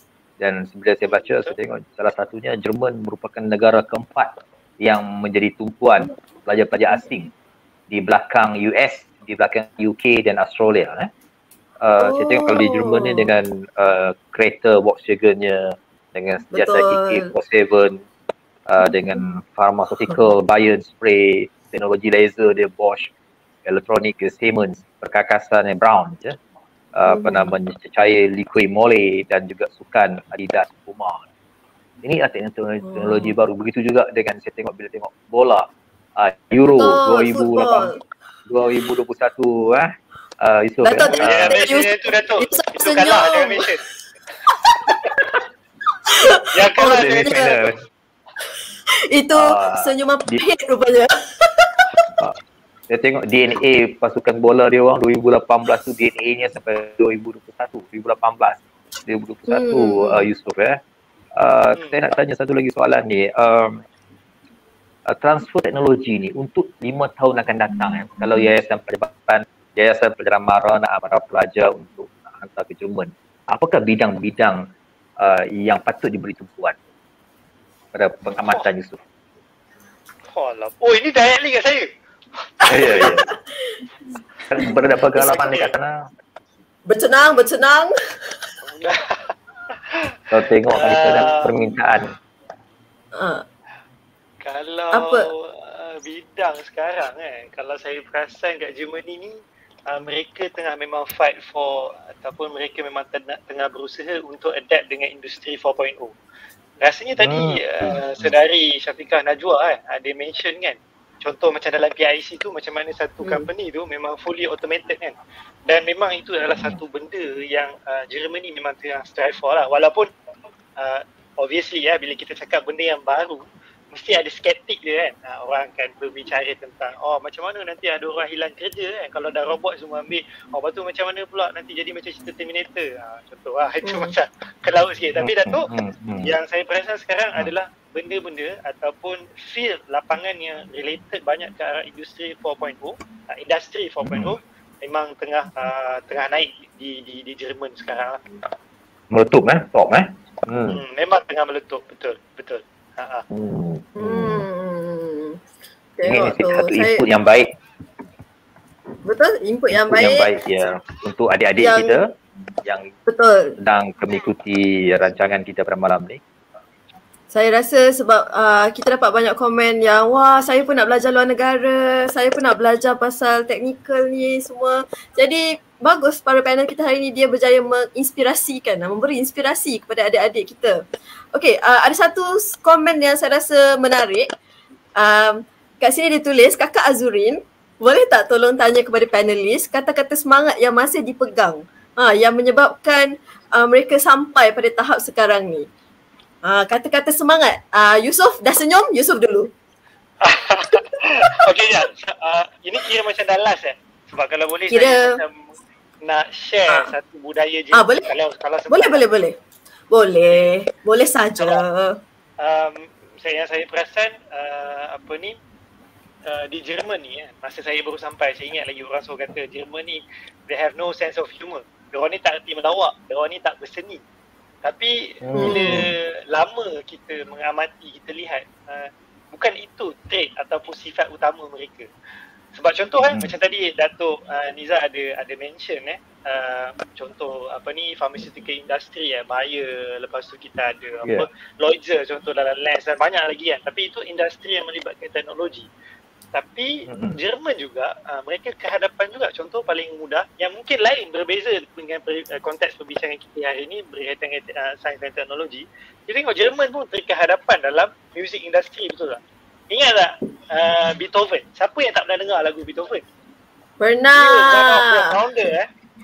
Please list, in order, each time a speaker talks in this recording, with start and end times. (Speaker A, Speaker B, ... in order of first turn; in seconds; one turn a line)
Speaker A: 0.4-7.3
Speaker B: 1.1-1.6
Speaker A: 7.9-11.1
Speaker A: 11.8-18.0
Speaker C: 12.0-13.3
Speaker C: 16.5-17.3
Speaker A: 18.7-23.1
Speaker C: 18.8-19.2
Speaker A: 23.6-26.4
Speaker A: 26.9-31.2
Speaker C: 27.1-27.5
Speaker A: 32.0-37.9
Speaker C: 32.9-33.4
Speaker C: 36.8-38.0
Speaker A: 38.5-39.9
Speaker A: 40.4-41.6
Speaker C: 40.8-43.8
Speaker B: 41.1-43.8
Speaker C: 44.9-45.2
Speaker C: 46.1-47.5
Speaker B: 46.5-47.5
Speaker A: 46.8-47.8
Speaker C: 49.1-51.9
Speaker A: 49.4-50.4
Speaker A: 52.9-60.8
Speaker C: 59.5-60.2
Speaker A: 61.4-63.8
Speaker A: 65.1-74.6
Speaker A: 75.2-76.8
Speaker A: 77.9-79.0
Speaker B: 80.3-81.9
Speaker A: 82.7-83.3
Speaker C: 82.7-83.3
Speaker A: 84.5-86.0
Speaker B: 85.1-85.7
Speaker C: 86.9-87.9
Speaker B: 88.6-89.2
Speaker A: 90.3-92.1
Speaker B: 90.8-91.5
Speaker C: 93.1-93.4
Speaker B: 94.4-99.4
Speaker C: 94.9-95.3
Speaker B: 99.9-106.1
Speaker B: 106.8-115.1
Speaker A: 107.2-108.3
Speaker B: 115.7-120.1
Speaker A: 116.5-116.8
Speaker B: 120.8-135.7
Speaker C: 133.8-134.1
Speaker A: 135.2-136.3
Speaker B: 136.2-148.2
Speaker A: 144.0-144.4
Speaker A: 149.1-150.8
Speaker B: 150.7-153.2
Speaker A: 153.3-154.4
Speaker C: 154.0-155.4
Speaker C: 156.0-157.0
Speaker A: 156.1-157.5
Speaker C: 159.1-160.3
Speaker A: 159.7-162.1
Speaker C: 161.6-162.0
Speaker A: 162.6-162.9
Speaker C: 163.1-163.5
Speaker A: 163.6-166.2
Speaker C: 167.3-180.8
Speaker C: 181.3-184.3
Speaker C: 185.0-195.7
Speaker C: 196.4-199.5
Speaker B: 200.2-205.5
Speaker C: 200.7-201.8
Speaker C: 204.7-205.2
Speaker B: 206.0-209.0
Speaker C: 207.7-208.1
Speaker C: 208.7-209.3
Speaker C: 209.9-212.0
Speaker B: 212.4-215.4
Speaker B: 216.3-224.0
Speaker B: 224.6-231.9
Speaker A: 225.2-225.9
Speaker C: 225.4-225.8
Speaker B: 232.6-245.7
Speaker B: 246.3-263.0
Speaker A: 246.9-247.2
Speaker C: 263.8-265.2
Speaker B: 264.1-265.7